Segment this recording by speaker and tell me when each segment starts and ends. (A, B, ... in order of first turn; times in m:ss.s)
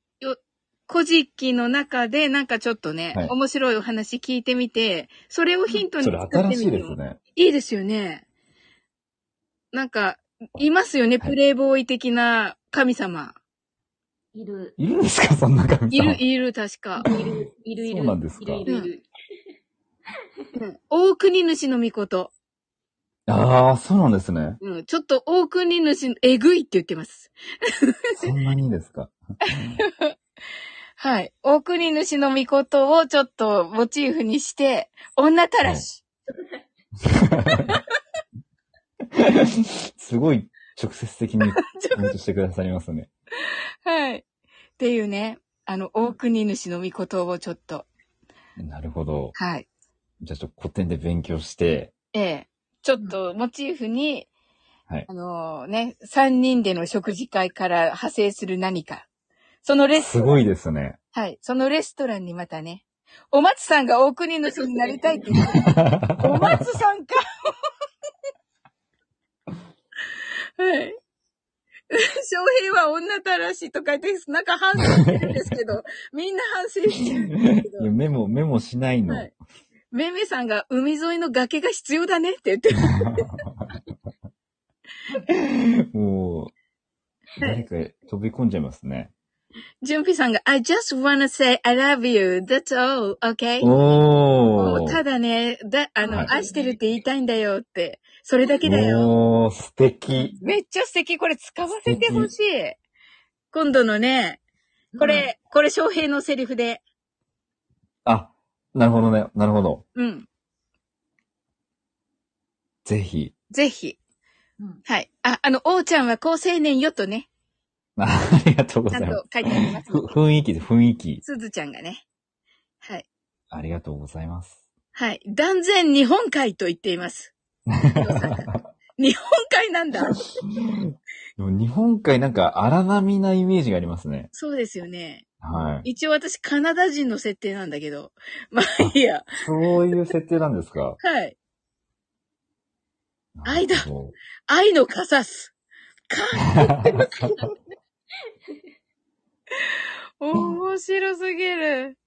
0:00.2-0:08.2 A
0:06.0-0:07.2 B
0:09.7-0:13.4 A
0:14.3-0:14.8 C
0:14.8-0:16.2 B
0:15.9-0:17.0 A
0:17.0-0:19.1 C
0:17.0-0:18.7 B
0:20.5-0:22.3 A
0:23.3-0:24.6 B
0:24.6-0:28.3 A
0:28.2-0:29.1 B
0:29.4-0:30.1 A
0:31.0-0:36.0 A
0:36.3-0:36.6 C
0:37.2-0:37.8 B
0:39.1-0:43.1 B
0:41.6-0:42.1 A
0:43.8-0:44.2 A
0:44.8-0:47.9 A
0:48.6-0:49.4 B
0:49.4-0:49.6 A
0:50.2-0:51.9 B
0:52.1-0:54.3 A
0:55.1-0:59.0 A
0:59.6-1:00.4 A
1:00.0-1:01.0 B
1:01.1-1:07.5 A
1:04.6-1:05.6 C
1:05.7-1:06.5 B
1:10.6-1:11.0 A
1:11.9-1:17.9 A
1:17.5-1:19.3 B
1:19.9-1:23.2 A
1:25.3-1:26.5 B
1:27.4-1:29.1 B
1:29.8-1:33.7 A
1:33.6-1:35.0 B
1:34.6-1:39.1 A
1:36.0-1:36.8 C
1:38.6-1:40.3 B
1:40.1-1:40.4 C
1:40.4-1:42.8 A
1:41.7-1:42.3 B
1:43.5-1:44.4 A
1:44.9-1:45.3 C
1:45.0-1:46.8 A
1:48.0-1:49.8 B
1:49.9-1:50.3 A
1:52.8-1:53.3 B
1:53.5-1:54.0 A
1:54.8-1:57.3 A
1:58.0-2:01.2 B
1:58.9-2:00.2 A
2:01.2-2:02.0 A
2:03.5-2:04.6 B
2:04.9-2:07.3 A
2:07.7-2:08.6 B
2:07.9-2:10.2 A
2:10.6-2:14.3 B
2:14.3-2:15.2 A
2:15.4-2:15.8 B
2:15.8-2:19.3 A
2:18.8-2:21.0 B
2:21.0-2:21.3 A
2:23.4-2:24.2 B
2:23.4-2:23.9 A
2:24.5-2:25.5 A
2:26.1-2:27.5 A
2:26.6-2:27.2 B
2:29.6-2:32.0 A